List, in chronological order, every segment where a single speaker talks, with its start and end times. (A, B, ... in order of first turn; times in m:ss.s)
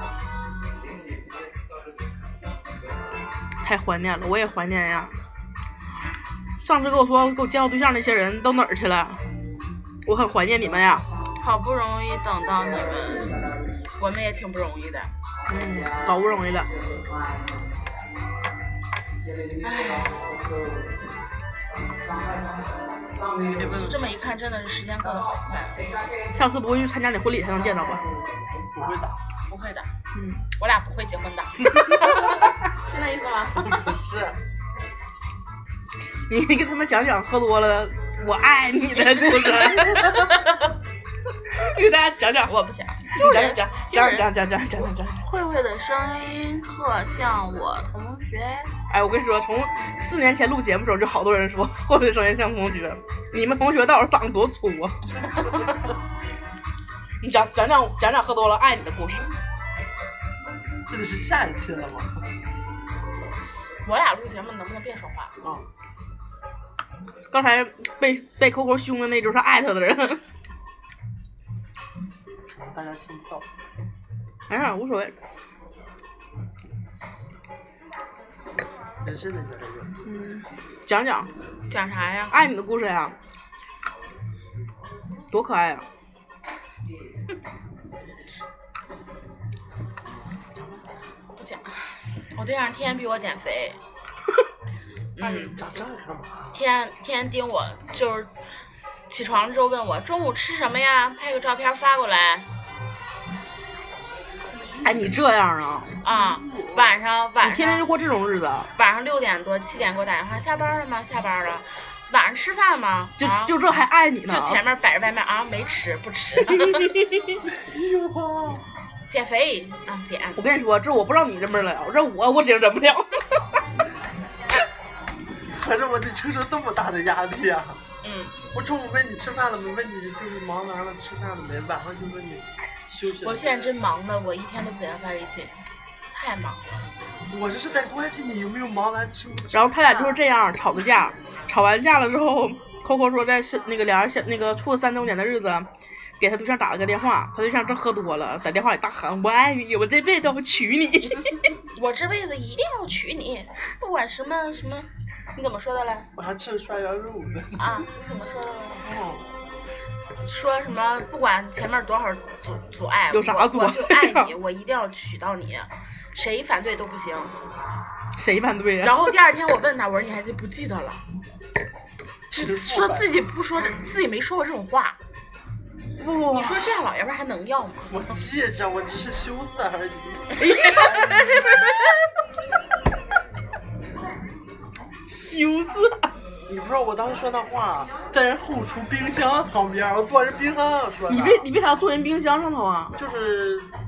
0:03.6-0:05.2 A
0:06.6-0:09.2 A
0:10.0-0:11.1 A
0:11.4-0:15.1 B
0:15.5-0:16.7 A
0:19.6-0:20.2 B
0:23.4-0:24.1 C
0:23.6-0:25.8 B
0:26.3-0:28.0 A
0:28.7-0:29.2 C
0:29.5-0:29.9 B
0:30.1-0:30.4 A
0:30.5-0:33.9 B
0:33.6-0:34.4 C
0:36.3-0:40.3 A
0:39.4-0:40.7 B
0:41.5-0:42.5 A
0:42.4-0:44.3 B
0:43.1-0:45.2 A
0:45.2-0:48.7 B
0:48.9-0:55.0 A
0:55.2-0:55.7 B
0:57.2-0:59.3 A
1:00.9-1:02.2 C
1:03.8-1:05.4 B
1:07.3-1:10.2 A
1:12.5-1:13.4 C
1:14.5-1:15.1 A
1:19.0-1:20.0 C
1:20.0-1:21.3 A
1:21.7-1:22.4 B
1:22.3-1:23.2 A
1:25.3-1:25.8 A
1:31.3-1:33.8 B
1:35.2-1:35.6 B
1:35.2-1:36.6 C
1:36.5-1:38.3 B
1:39.1-1:42.5 B
1:44.8-1:45.9 A
1:46.0-1:47.9 B
1:46.1-1:46.9 C
1:47.4-1:48.7 A
1:48.7-1:53.6 B
1:53.2-1:54.6 A
1:54.2-1:56.9 B
1:56.6-1:57.3 A
1:57.5-1:58.6 C
1:59.1-2:00.4 B
2:00.4-2:03.4 A
2:05.5-2:07.8 C
2:08.0-2:08.4 B
2:08.5-2:13.7 C
2:13.2-2:15.5 B
2:16.1-2:16.6 B
2:17.3-2:20.2 C
2:19.5-2:25.7 A
2:26.2-2:31.3 A
2:31.7-2:36.1 B
2:36.1-2:37.6 C
2:37.6-2:38.9 B
2:38.8-2:39.3 C
2:40.2-2:47.3 B
2:43.1-2:44.3 A
2:48.2-2:49.1 A
2:48.8-2:51.0 B
2:52.3-2:55.0 B
2:52.3-2:53.1 C
2:56.0-2:56.6 A
2:56.3-2:57.9 B
2:57.9-3:01.6 C
3:00.4-3:01.8 A
3:05.1-3:06.1 A
3:06.5-3:11.5 C
3:11.1-3:13.0 A
3:13.0-3:13.7 C